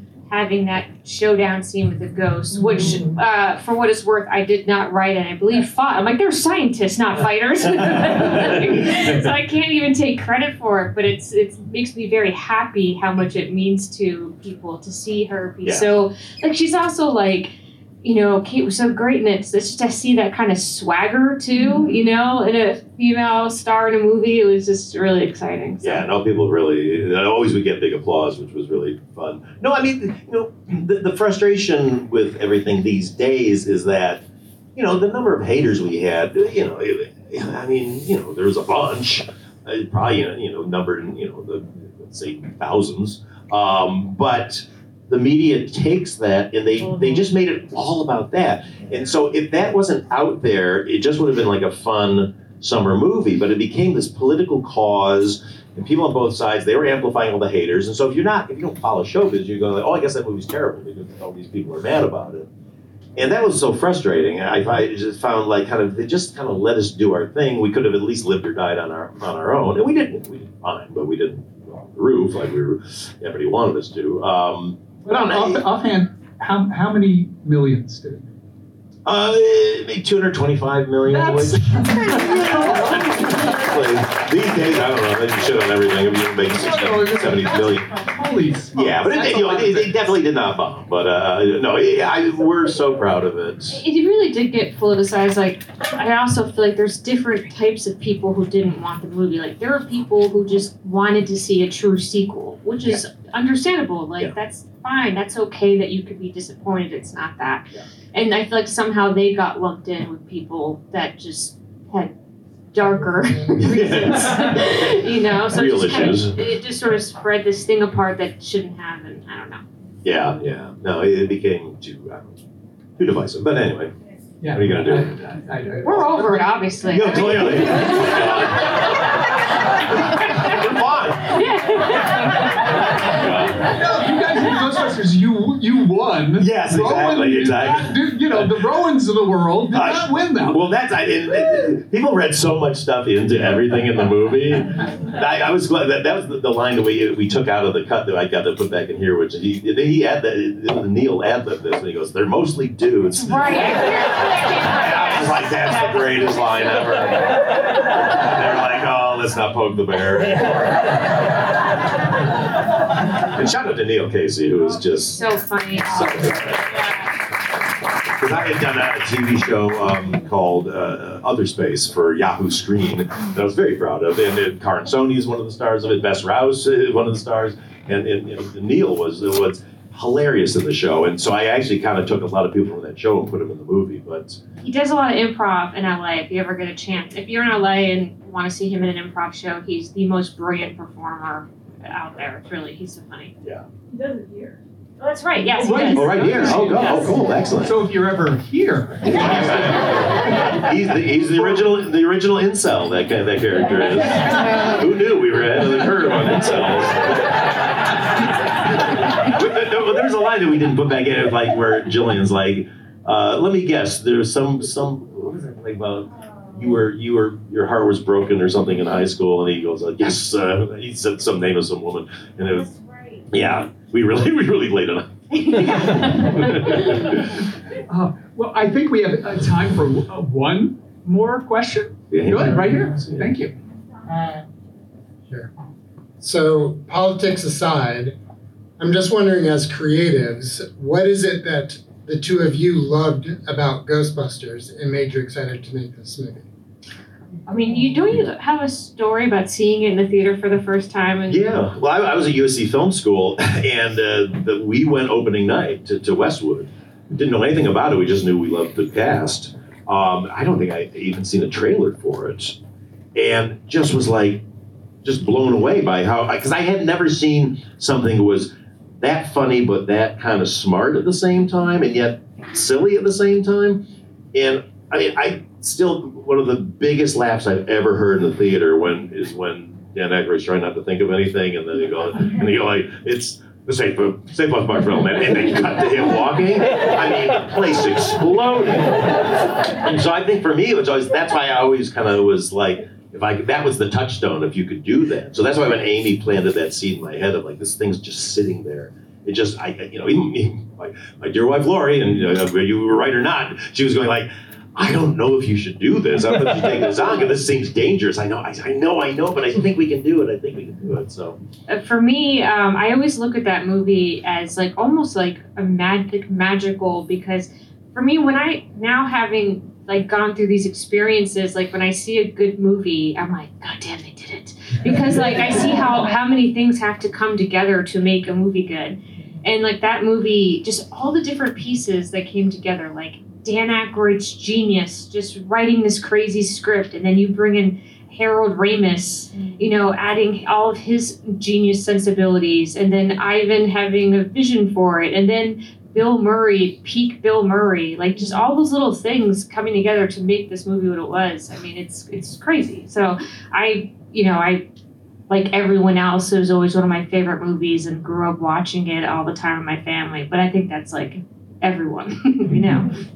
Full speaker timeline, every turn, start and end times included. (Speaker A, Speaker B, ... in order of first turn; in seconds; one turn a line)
Speaker A: 0.3-26.1
Speaker B: 7.9-9.3
Speaker B: 15.6-15.9
Speaker B: 25.8-34.2
Speaker B: 34.8-62.5
Speaker B: 63.1-75.6
Speaker C: 75.0-78.3
Speaker B: 79.0-88.0
Speaker C: 81.1-83.7
Speaker C: 86.5-90.0
Speaker B: 88.7-93.8
Speaker A: 93.8-112.2
Speaker A: 112.7-119.6
Speaker B: 113.5-114.7
Speaker C: 113.8-114.5
Speaker B: 115.4-116.3
Speaker B: 120.0-122.4
Speaker B: 123.0-123.9
Speaker C: 124.4-126.6
Speaker B: 124.5-125.5
Speaker A: 125.8-127.6
Speaker B: 126.8-129.0
Speaker C: 127.4-128.3
Speaker B: 130.2-131.3
Speaker A: 131.3-132.4
Speaker B: 133.0-133.8
Speaker C: 133.6-140.6
Speaker B: 136.4-138.5
Speaker B: 139.7-157.5
Speaker A: 153.2-156.3
Speaker B: 158.0-160.9
Speaker B: 163.3-165.2
Speaker A: 165.1-167.1
Speaker B: 165.8-166.6
Speaker B: 168.2-184.4
Speaker A: 184.6-193.3
Speaker A: 195.0-196.9
Speaker C: 195.6-200.6
Speaker B: 195.9-197.8
Speaker B: 199.0-207.6
Speaker C: 201.3-201.6
Speaker B: 208.9-222.7
Speaker B: 223.3-227.2
Speaker A: 225.5-226.3
Speaker C: 227.9-233.5
Speaker B: 232.1-233.3
Speaker D: 234.1-234.4
Speaker D: 236.2-238.2
Speaker D: 238.8-246.4
Speaker A: 247.5-251.6
Speaker B: 251.3-262.6
Speaker B: 263.1-264.4
Speaker B: 265.0-311.4
Speaker A: 311.7-354.7
Speaker A: 355.3-362.9